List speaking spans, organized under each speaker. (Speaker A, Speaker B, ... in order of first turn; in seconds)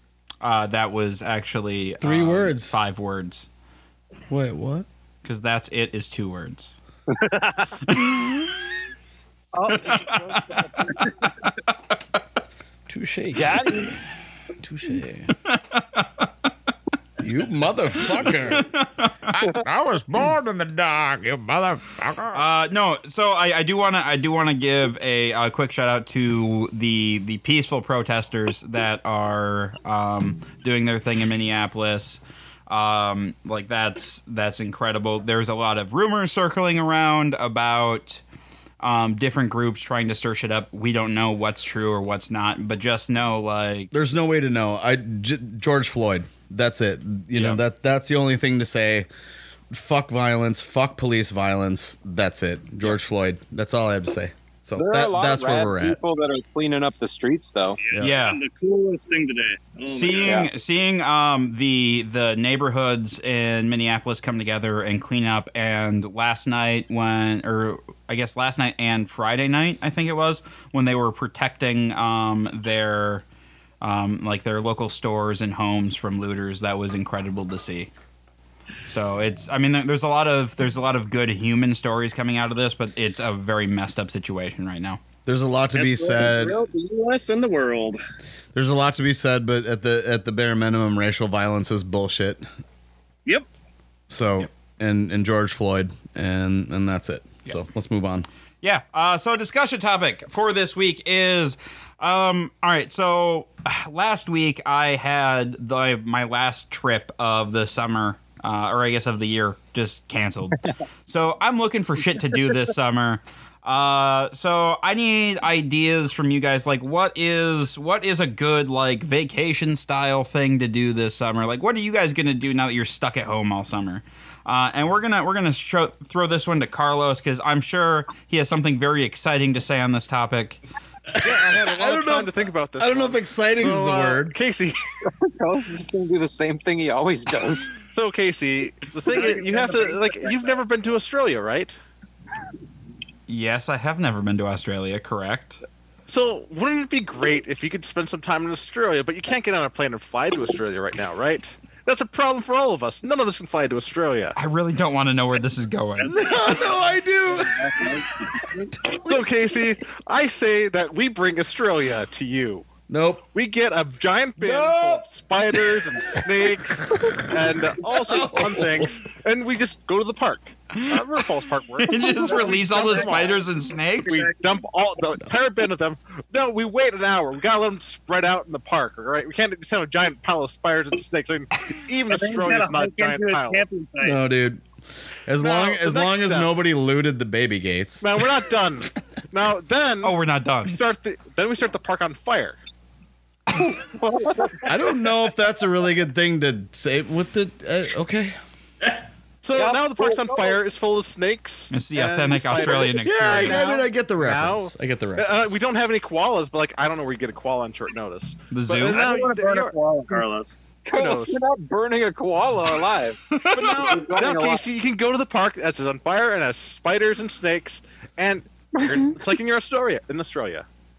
Speaker A: 0.4-3.5, 5.2-6.8, 7.8-8.5, 9.7-10.4, 15.5-16.3, 18.2-19.3, 22.3-38.2, 38.8-43.9, 58.0-58.4, 59.9-73.2, 73.8-77.9, 78.9-85.0, 98.6-130.6, 143.3-145.6, 154.4-156.2, 171.8-174.3, 190.0-190.8, 201.7-203.8, 208.5-209.1, 213.3-214.0
Speaker B: 2.0-2.9, 4.3-4.9, 12.9-14.0, 14.6-15.3, 17.2-18.7, 19.3-22.4, 43.9-49.1, 49.7-56.0, 57.9-58.2, 85.3-86.6, 88.5-92.5, 94.1-98.3, 131.2-134.4, 156.0-157.7, 158.4-159.3, 162.9-163.2, 164.4-169.0, 184.0-184.6, 185.3-188.3, 194.7-198.4, 202.8-205.5
Speaker C: 7.2-7.7, 9.6-10.5, 13.4-13.8, 58.3-60.2, 85.8-88.0, 139.1-140.3, 174.1-174.4, 182.1-184.2, 208.8-210.5
Speaker D: 54.8-57.8, 135.2-137.7, 193.9-194.7, 199.6-200.6, 210.9-214.7
Speaker E: 131.2-134.8, 137.9-141.8, 146.1-154.4, 159.0-162.7, 163.3-173.5, 174.1-183.7, 185.4-186.5, 188.0-192.6, 199.4-209.8, 210.9-211.4, 213.5-220.7